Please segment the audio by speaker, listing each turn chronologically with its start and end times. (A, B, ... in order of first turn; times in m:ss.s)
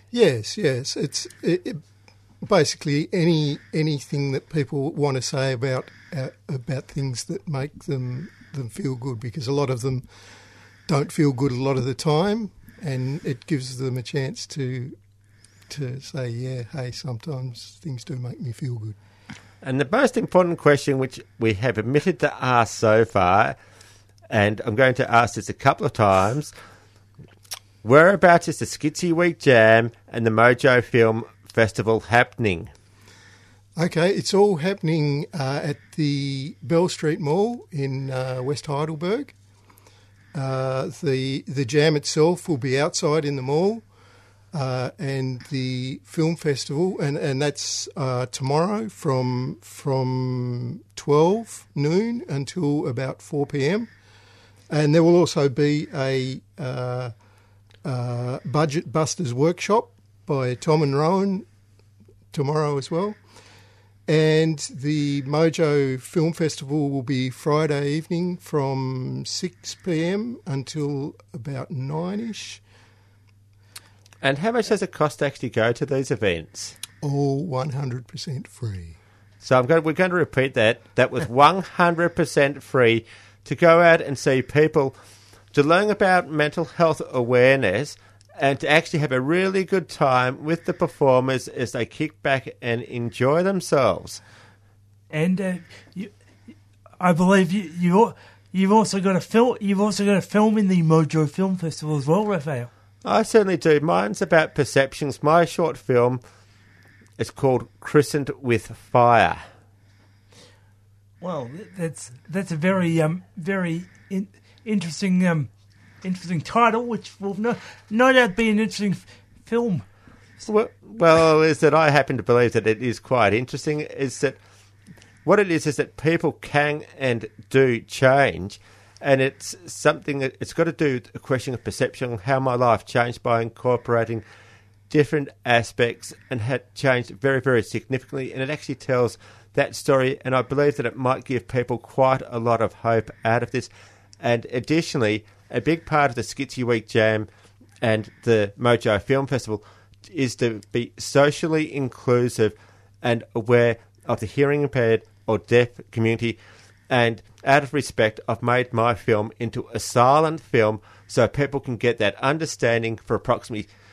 0:00.1-0:01.8 A
0:02.4-0:10.1 A
0:10.8-0:15.0 A
0:15.7-0:19.0 A
0:19.6-0:23.6 B
0:24.3-0:26.5 B
0:27.8-0:32.7 B
0:33.8-0:39.3 A
0:40.3-0:43.8 A
0:44.5-0:53.9 A
0:54.7-0:57.1 A
0:57.8-1:01.5 A
1:02.3-1:03.2 A
1:04.0-1:12.6 A
1:14.2-1:16.8 B
1:17.0-1:19.0 A
1:19.4-1:25.0 B
1:25.5-1:34.2 B
1:35.1-1:36.1 C
1:37.0-1:42.7 C
1:43.0-1:46.2 B
1:47.2-1:49.4 B
1:51.2-1:59.8 C
2:00.4-2:04.4 B
2:05.2-2:14.2 B
2:14.9-2:23.7 B
2:24.2-2:27.3 B
2:27.8-2:43.7 B